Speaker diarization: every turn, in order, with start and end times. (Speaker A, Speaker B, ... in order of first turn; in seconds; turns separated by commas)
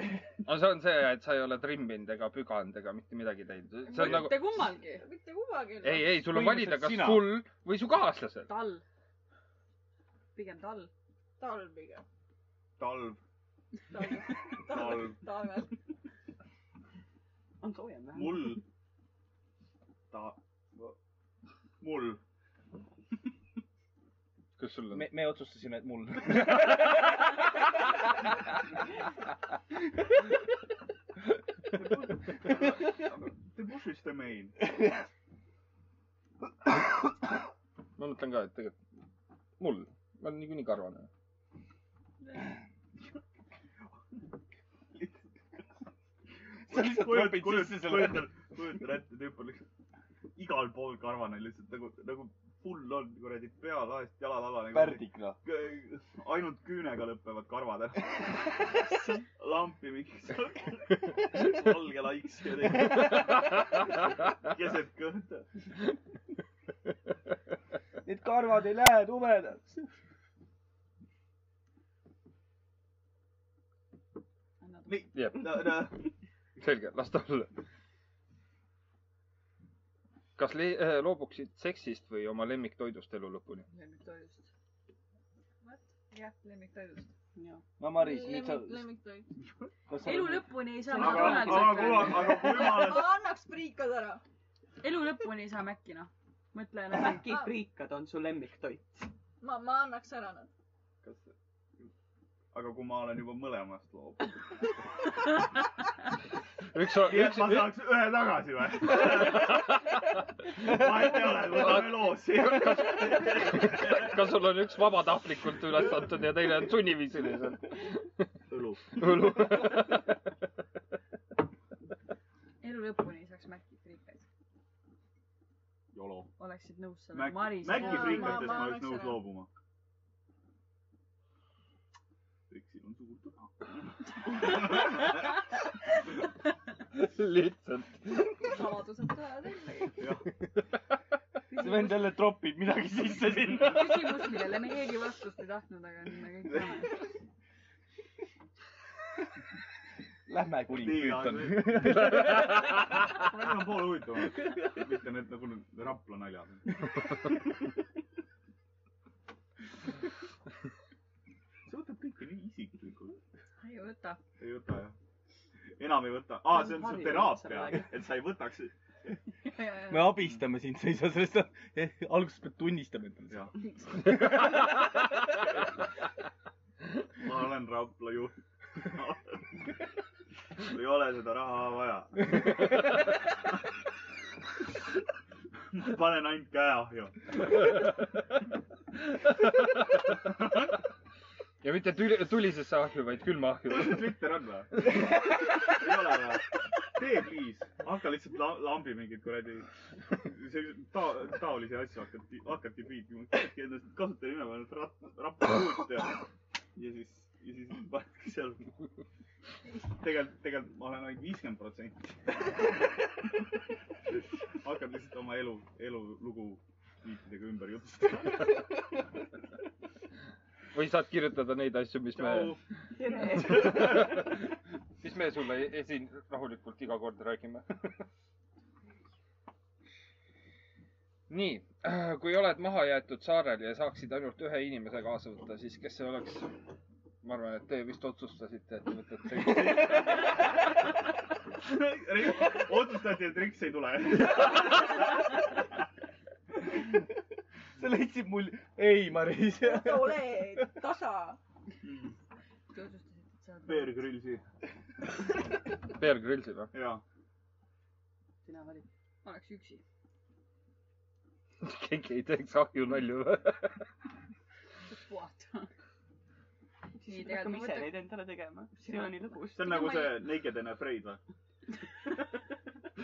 Speaker A: 0.4-4.6, Speaker B: 3.8-5.0, Speaker C: 4.9-6.1, Speaker A: 5.8-8.5, Speaker D: 6.1-7.4, Speaker B: 8.5-8.8, Speaker B: 10.3-10.9, Speaker C: 11.4-12.0, Speaker E: 12.8-13.2, Speaker C: 13.9-15.8, Speaker E: 14.7-15.2, Speaker F: 17.6-18.6, Speaker E: 18.1-18.6, Speaker E: 20.1-20.9, Speaker E: 21.8-22.2, Speaker A: 24.6-25.1, Speaker D: 24.9-27.3, Speaker E: 31.7-34.6, Speaker A: 38.0-38.8, Speaker A: 39.6-41.1, Speaker D: 46.7-48.3, Speaker E: 46.7-49.6, Speaker E: 50.4-65.6, Speaker D: 54.7-55.4, Speaker D: 68.0-69.9, Speaker B: 74.6-75.0, Speaker E: 74.9-76.0, Speaker A: 75.1-75.9, Speaker A: 76.6-77.5, Speaker A: 80.4-83.7, Speaker B: 83.7-84.5, Speaker B: 85.6-87.1, Speaker F: 87.3-87.6, Speaker D: 87.8-88.9, Speaker C: 87.9-89.3, Speaker D: 89.9-90.6, Speaker B: 90.0-92.5, Speaker F: 90.9-92.2, Speaker E: 90.9-93.2, Speaker C: 92.2-94.2, Speaker B: 94.8-97.3, Speaker F: 96.9-99.1, Speaker C: 99.4-100.5, Speaker E: 101.0-101.9, Speaker E: 102.5-104.4, Speaker A: 106.7-107.7, Speaker E: 107.0-109.8, Speaker E: 110.5-114.2, Speaker A: 111.8-118.1, Speaker E: 118.5-119.4, Speaker A: 118.9-120.2, Speaker B: 122.6-124.2, Speaker E: 125.9-126.3, Speaker B: 126.4-128.7, Speaker E: 127.1-129.5, Speaker C: 127.7-129.2, Speaker E: 132.5-135.1, Speaker A: 136.9-138.4, Speaker B: 138.4-140.0, Speaker E: 140.0-140.2, Speaker B: 141.5-142.2, Speaker D: 141.5-144.3, Speaker B: 143.6-147.1, Speaker D: 150.3-152.5, Speaker E: 150.7-152.5, Speaker E: 153.0-157.3, Speaker E: 161.7-163.2, Speaker B: 163.6-164.2, Speaker E: 164.4-164.9, Speaker E: 165.8-168.7, Speaker F: 166.5-167.9, Speaker B: 169.5-170.1, Speaker D: 169.9-173.5, Speaker E: 173.3-173.5, Speaker B: 173.6-174.2, Speaker E: 177.2-179.4, Speaker E: 180.6-182.8, Speaker E: 185.7-187.3, Speaker A: 189.3-189.8, Speaker A: 191.6-194.2, Speaker E: 193.7-206.2, Speaker E: 206.8-208.7, Speaker E: 209.9-212.4, Speaker E: 214.6-218.6, Speaker A: 220.7-222.6, Speaker E: 222.2-222.6, Speaker F: 222.9-224.3, Speaker A: 223.5-224.4, Speaker A: 225.0-228.0, Speaker A: 231.3-236.5, Speaker A: 237.2-240.3, Speaker E: 241.6-245.4, Speaker D: 247.8-250.8, Speaker C: 249.6-251.4, Speaker E: 251.8-252.1, Speaker B: 252.7-254.0, Speaker E: 253.7-254.4, Speaker A: 255.9-256.7, Speaker E: 256.7-257.0, Speaker F: 258.4-258.9, Speaker B: 259.2-259.8, Speaker A: 261.6-263.8, Speaker B: 264.9-265.7, Speaker F: 267.0-270.1, Speaker B: 267.0-267.9, Speaker B: 268.8-270.2, Speaker E: 269.5-271.2